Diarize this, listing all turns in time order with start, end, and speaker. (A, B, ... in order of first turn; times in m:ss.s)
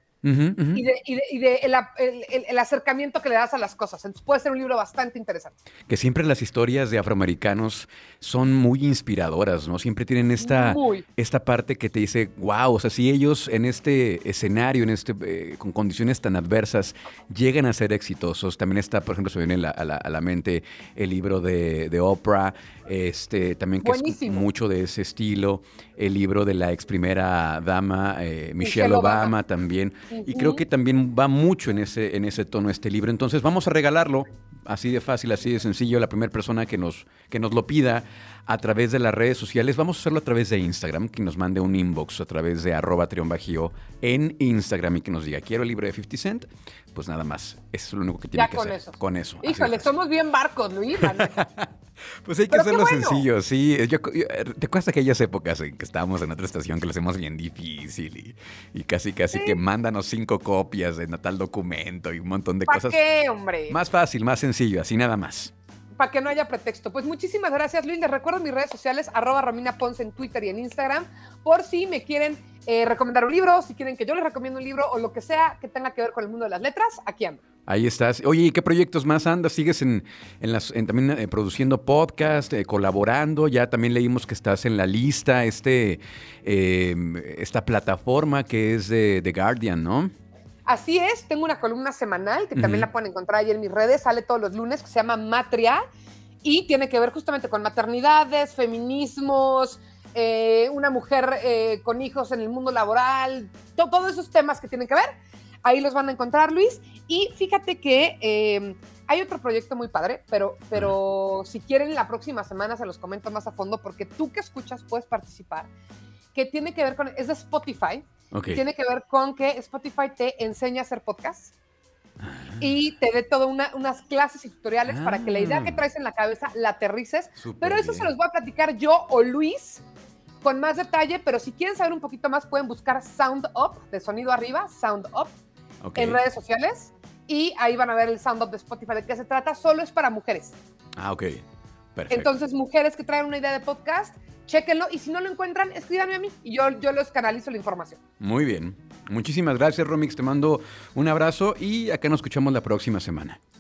0:00.2-0:00.8 A
0:00.7-0:05.6 B
0:05.9-0:49.9 A
0:10.4-0:11.0 B
0:23.8-0:24.5 B
0:28.6-0:29.4 B
0:30.1-0:30.6 B
0:48.3-0:51.4 B
0:51.0-0:51.7 A
0:52.2-1:03.0 A
0:52.5-0:53.3 B
0:59.3-0:59.6 B
1:02.7-1:03.8 B
1:03.7-1:05.5 A
1:06.0-1:17.4 B
1:17.7-1:30.1 A
1:30.7-1:35.8 B
1:32.6-1:32.9 A
1:36.4-1:45.1 B
1:45.6-1:55.7 B
1:56.3-2:01.5 B
1:58.3-1:58.6 A
2:02.2-2:02.7 A
2:02.6-2:09.8 B
2:04.9-2:05.8 A
2:07.4-2:08.1 A
2:10.4-2:15.3 B
2:15.8-2:16.2 A
2:16.0-2:20.6 B
2:21.0-2:21.4 A
2:22.0-2:22.3 A
2:22.1-2:28.0 B
2:28.2-2:33.4 A